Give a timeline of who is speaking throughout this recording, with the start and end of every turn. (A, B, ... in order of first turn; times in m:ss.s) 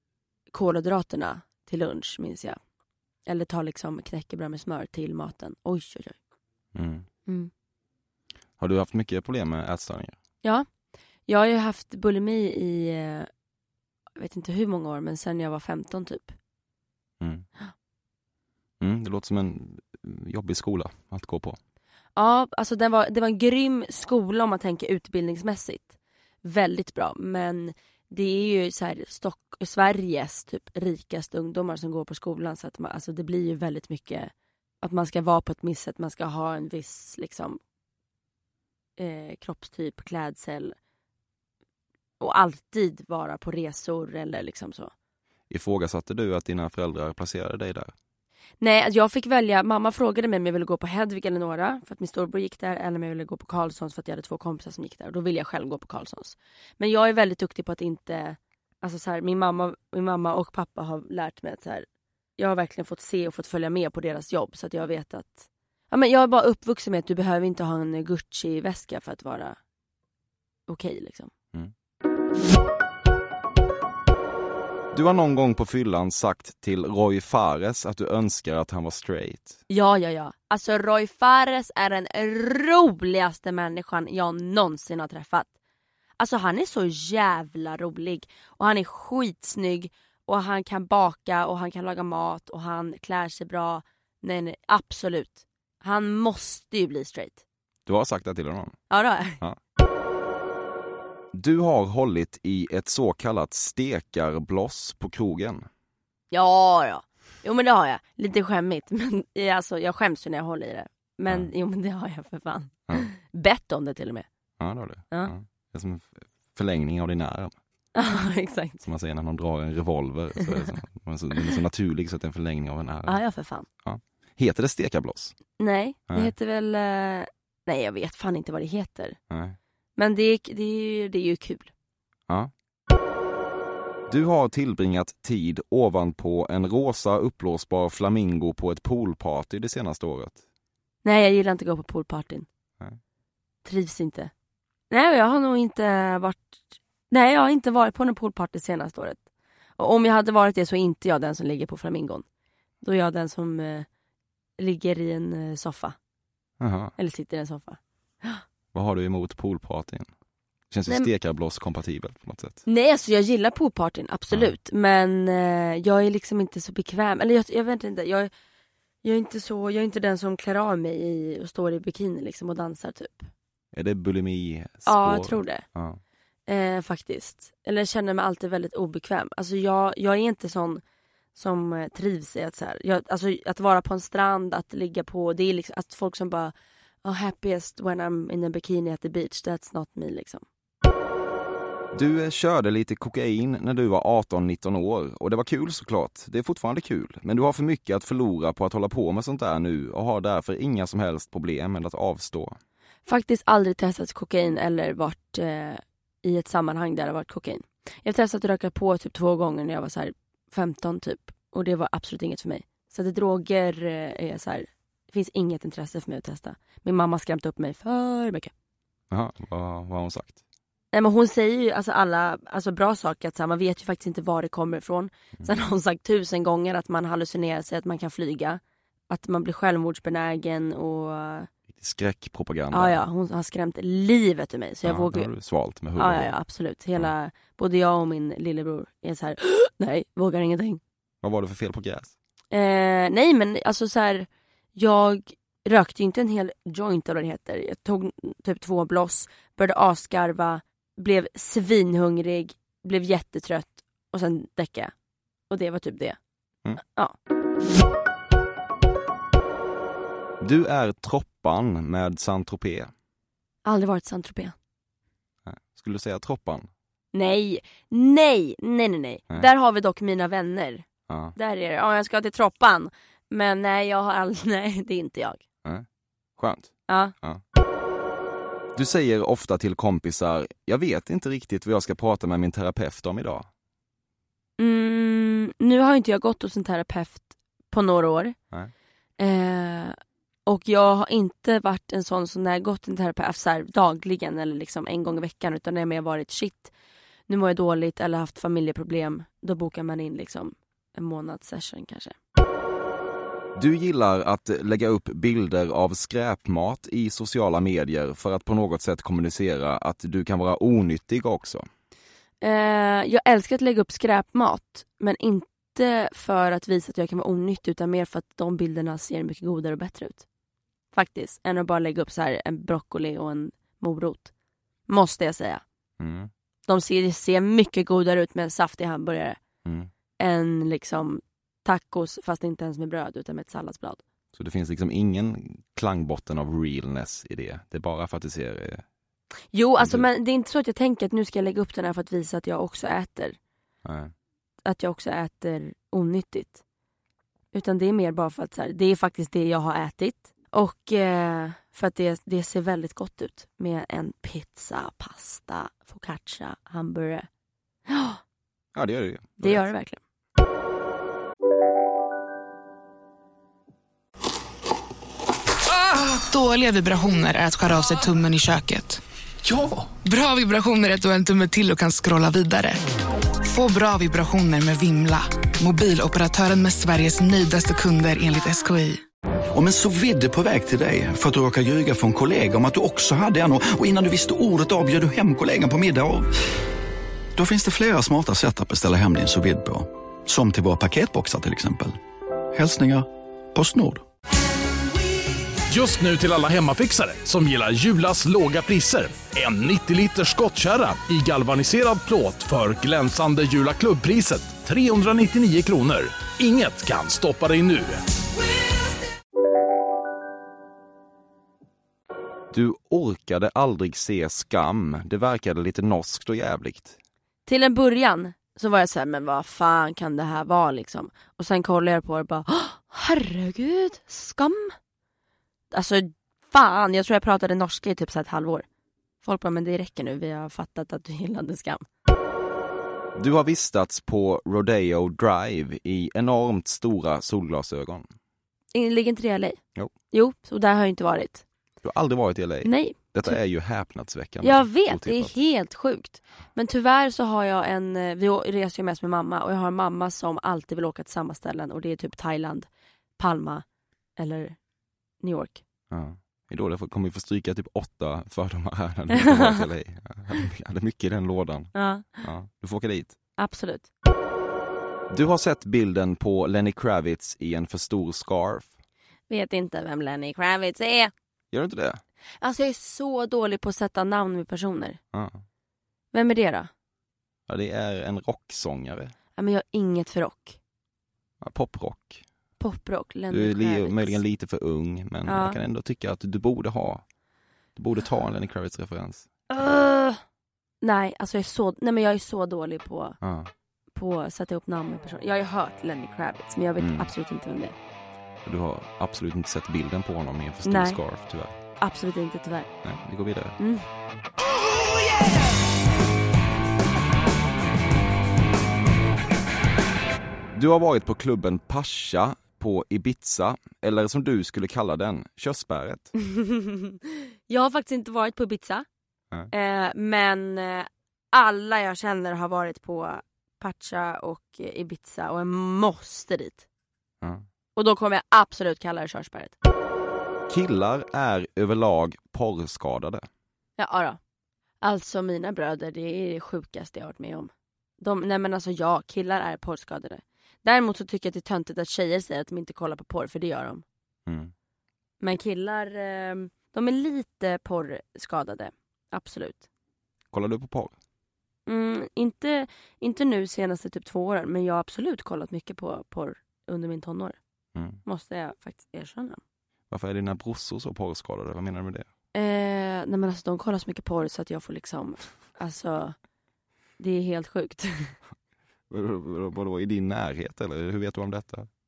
0:00.5-0:02.6 A
0:03.3-0:06.2 A
0:06.8-0:07.1 B
0:08.6-0:10.2 B
0:11.3-0:13.3 A
0:14.2-0:16.3 A
0:17.2-0:17.5 B
0:18.8-0:21.6 B
0:22.2-0:37.6 A
0:39.0-0:40.8 A
0:42.2-0:44.9 A
0:45.5-0:47.9 B
0:48.6-1:01.9 A
1:02.4-1:09.6 A
1:10.7-1:11.3 A
1:14.9-1:19.6 B
1:19.7-1:25.5 A
1:26.2-1:37.4 A
1:37.9-1:38.8 B
1:38.9-1:39.4 A
1:41.3-1:45.7 B
1:46.3-1:54.3 A
1:54.6-1:57.6 B
1:58.0-1:58.8 A
1:58.8-2:03.2 B
2:03.1-2:03.7 A
2:03.8-2:05.4 B
2:05.6-2:09.2 A
2:09.3-2:09.6 B
2:10.0-2:11.7 A
2:14.1-2:20.4 B
2:21.0-2:22.5 A
2:23.6-2:24.3 A
2:24.9-2:29.2 A
2:29.8-2:32.2 A
2:32.8-2:33.9 A
2:34.6-2:36.0 A
2:36.6-2:36.9 B
2:37.0-2:38.4 A
2:38.7-2:40.1 B
2:40.7-2:42.6 B
2:42.7-2:48.3 A
2:49.0-2:53.3 A
2:53.7-2:56.0 B
2:54.9-2:55.6 A
2:56.5-3:00.8 A
3:01.4-3:10.4 A
3:11.9-3:22.6 B
3:23.1-3:38.5 A
3:39.1-3:40.4 B
3:40.9-3:51.5 A
3:51.7-3:53.0 B
3:52.7-3:55.3 A
3:54.8-3:56.4 B
3:56.0-4:00.8 A
4:01.2-4:02.1 B
4:02.5-4:14.9 A
4:15.5-4:16.2 A
4:16.8-4:17.2 A
4:20.4-4:22.9 B
4:23.6-4:24.6 A
4:25.4-4:26.7 B
4:27.1-4:35.4 A
4:31.1-4:31.4 B
4:36.4-4:37.4 B
4:38.8-4:43.5 B
4:44.6-4:48.4 A
4:49.2-4:56.7 A
4:57.3-5:02.2 A
5:03.6-5:11.7 B
5:12.4-5:20.2 A
5:20.9-5:24.3 A
5:24.9-5:25.6 A
5:26.0-5:26.3 B
5:26.7-5:29.4 A
5:29.6-5:29.9 B
5:30.2-5:34.0 A
5:34.3-5:38.8 B
5:39.5-5:43.4 A
5:39.8-5:40.0 B
5:43.8-5:44.1 B
5:44.6-5:46.6 A
5:47.5-5:57.3 A
5:57.9-5:58.2 A
5:58.8-5:59.7 B
5:59.4-6:00.0 A
6:05.7-6:09.0 C
6:10.0-6:12.8 C
6:13.4-6:19.0 C
6:19.5-6:26.3 D
6:27.4-6:32.0 D
6:32.5-6:34.0 D
6:35.7-6:48.0 E
6:52.5-6:57.0 B
6:57.5-7:04.8 A
7:05.7-7:08.7 A
7:09.2-7:11.8 A
7:13.2-7:18.1 B
7:18.7-7:19.6 A
7:20.1-7:21.4 A
7:21.8-7:25.3 B
7:22.6-7:23.4 A
7:24.4-7:33.6 A
7:34.2-7:34.6 A
7:35.2-7:35.6 A
7:35.9-7:43.2 B
7:41.8-7:42.2 A
7:43.4-7:43.9 A
7:45.1-7:48.8 B
7:49.3-7:51.1 A
7:51.5-7:52.0 B
7:52.4-7:55.0 A
7:55.1-7:55.4 B
7:56.1-7:56.7 A
7:57.5-7:59.1 B
7:59.4-8:00.6 A
8:01.4-8:02.2 B
8:02.6-8:04.2 A
8:03.3-8:07.0 B
8:05.3-8:05.6 A
8:07.8-8:09.3 B
8:09.5-8:10.2 A
8:10.8-8:13.2 A
8:13.2-8:13.5 B
8:14.0-8:17.8 A
8:16.8-8:17.1 B
8:18.4-8:21.5 B
8:20.6-8:21.0 A
8:21.8-8:22.7 A
8:22.8-8:23.6 B
8:23.6-8:23.8 A
8:30.5-8:36.1 B
8:36.2-8:38.8 A
8:39.5-8:46.6 A
8:47.8-8:49.6 A
8:50.5-8:53.3 B
8:53.8-8:54.2 A
8:54.8-9:03.8 A
9:04.3-9:04.5 B
9:05.2-9:09.6 A
9:10.3-9:11.0 B
9:11.7-9:17.4 A
9:17.8-9:18.0 B
9:18.0-9:19.4 A
9:19.9-9:22.1 B
9:22.4-9:26.2 A
9:27.0-9:28.2 A
9:28.9-9:31.7 B